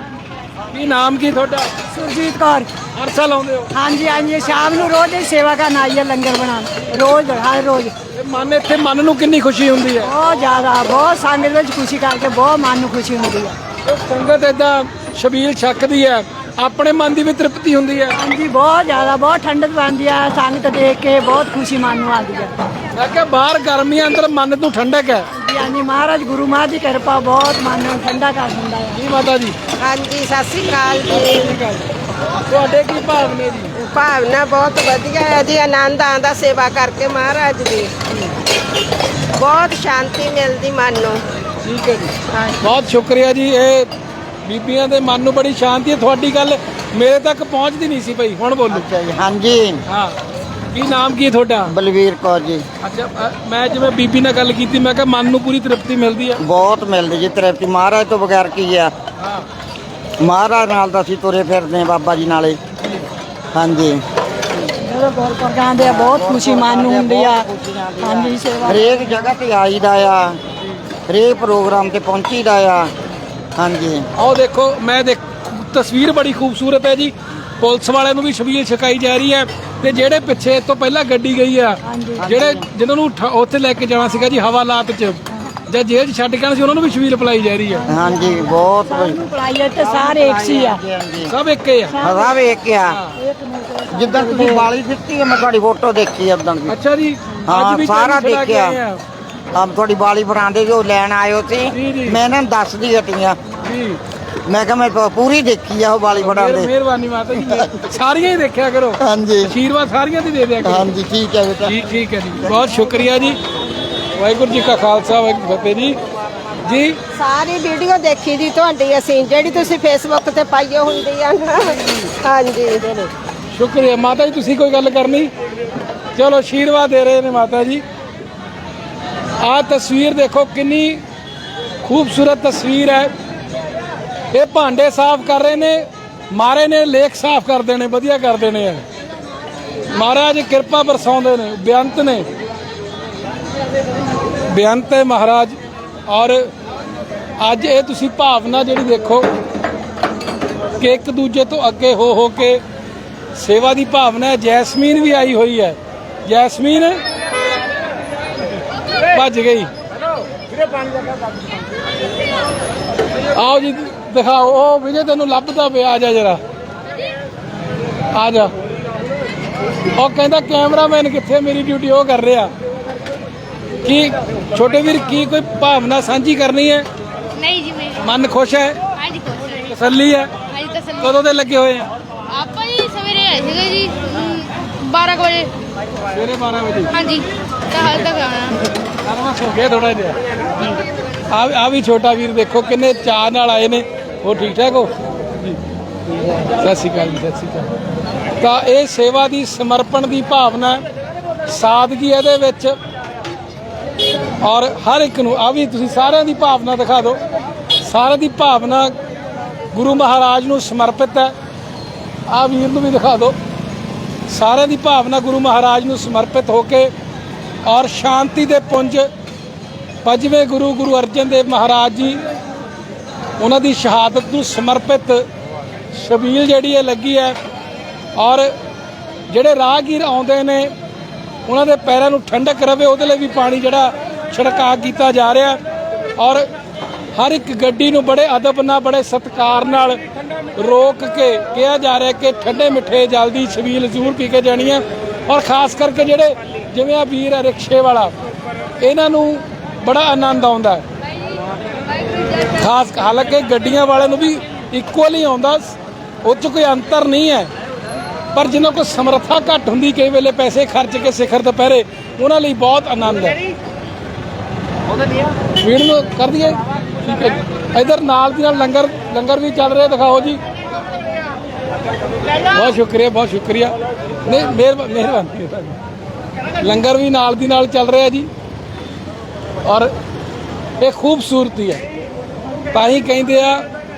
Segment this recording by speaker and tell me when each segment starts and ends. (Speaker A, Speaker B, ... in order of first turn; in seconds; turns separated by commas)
Speaker A: 0.7-1.7, Speaker B: 1.9-2.7, Speaker A: 2.9-3.7, Speaker B: 3.7-7.9, Speaker A: 8.1-10.1, Speaker B: 10.0-13.5, Speaker A: 13.8-18.2, Speaker B: 18.1-22.5, Speaker A: 22.9-25.3, Speaker B: 25.4-29.0, Speaker A: 28.9-29.6, Speaker C: 29.8-31.5, Speaker A: 31.1-31.9, Speaker A: 32.4-33.8, Speaker C: 33.8-37.9, Speaker C: 39.3-41.2, Speaker A: 41.6-43.9, Speaker A: 44.4-48.9, Speaker D: 48.7-49.8, Speaker A: 49.9-50.2, Speaker A: 50.7-51.7, Speaker D: 51.7-52.6, Speaker A: 52.8-56.4, Speaker D: 56.4-58.9, Speaker D: 60.2-62.6, Speaker D: 63.5-64.0, Speaker B: 64.7-67.5, Speaker D: 65.8-70.4, Speaker B: 68.0-69.1, Speaker D: 71.1-72.9, Speaker D: 73.5-74.1, Speaker A: 74.2-87.9, Speaker B: 81.8-82.3, Speaker D: 82.2-82.6, Speaker D: 87.9-89.2, Speaker B: 87.9-90.8, Speaker D: 89.8-91.3, Speaker A: 91.3-92.0, Speaker B: 91.9-92.5, Speaker D: 92.0-93.0, Speaker A: 92.9-93.1, Speaker B: 93.2-94.7, Speaker D: 93.9-96.7, Speaker A: 96.7-99.0, Speaker D: 97.5-98.8, Speaker D: 99.5-103.4, Speaker A: 101.7-102.2, Speaker A: 103.6-104.0, Speaker D: 104.4-106.7, Speaker A: 106.2-110.9, Speaker D: 107.4-107.7, Speaker D: 109.0-109.5, Speaker D: 110.6-111.8, Speaker A: 111.6-113.4, Speaker A: 114.2-116.0, Speaker A: 116.6-117.0, Speaker C: 117.1-123.1, Speaker A: 123.5-125.3, Speaker A: 126.2-127.8, Speaker A: 129.4-131.0, Speaker A: 131.8-133.1, Speaker A: 134.3-138.8, Speaker A: 139.9-142.3, Speaker A: 144.5-145.6, Speaker A: 146.1-146.5, Speaker A: 147.4-149.3, Speaker A: 150.8-152.6, Speaker A: 153.3-157.0, Speaker A: 159.1-159.7, Speaker A: 163.3-166.4, Speaker A: 168.1-168.5, Speaker A: 169.9-172.5, Speaker A: 173.8-176.8, Speaker E: 177.4-178.0, Speaker A: 178.0-178.8, Speaker E: 178.9-179.6, Speaker A: 179.6-180.3, Speaker E: 180.5-181.1, Speaker A: 181.0-181.9, Speaker E: 182.3-185.5, Speaker A: 186.1-186.9, Speaker E: 186.9-188.7, Speaker A: 189.0-190.2, Speaker A: 191.3-195.6, Speaker A: 196.6-197.7, Speaker A: 198.4-200.8, Speaker A: 201.5-202.8, Speaker A: 204.4-207.2, Speaker A: 207.8-208.9, Speaker A: 209.7-211.3, Speaker A: 212.3-213.3, Speaker A: 214.3-216.9, Speaker A: 217.7-219.1, Speaker A: 220.0-222.2, Speaker A: 223.4-225.2, Speaker A: 225.9-227.4, Speaker A: 228.2-228.5, Speaker A: 229.3-230.7, Speaker A: 231.4-235.6, Speaker A: 236.2-236.5, Speaker A: 237.2-240.0, Speaker A: 240.6-248.1, Speaker A: 248.8-250.8, Speaker A: 252.6-257.5, Speaker A: 258.3-263.4, Speaker A: 265.6-270.4, Speaker A: 272.5-275.8, Speaker A: 276.6-278.3, Speaker A: 279.6-279.9, Speaker A: 280.8-281.8, Speaker A: 282.7-283.6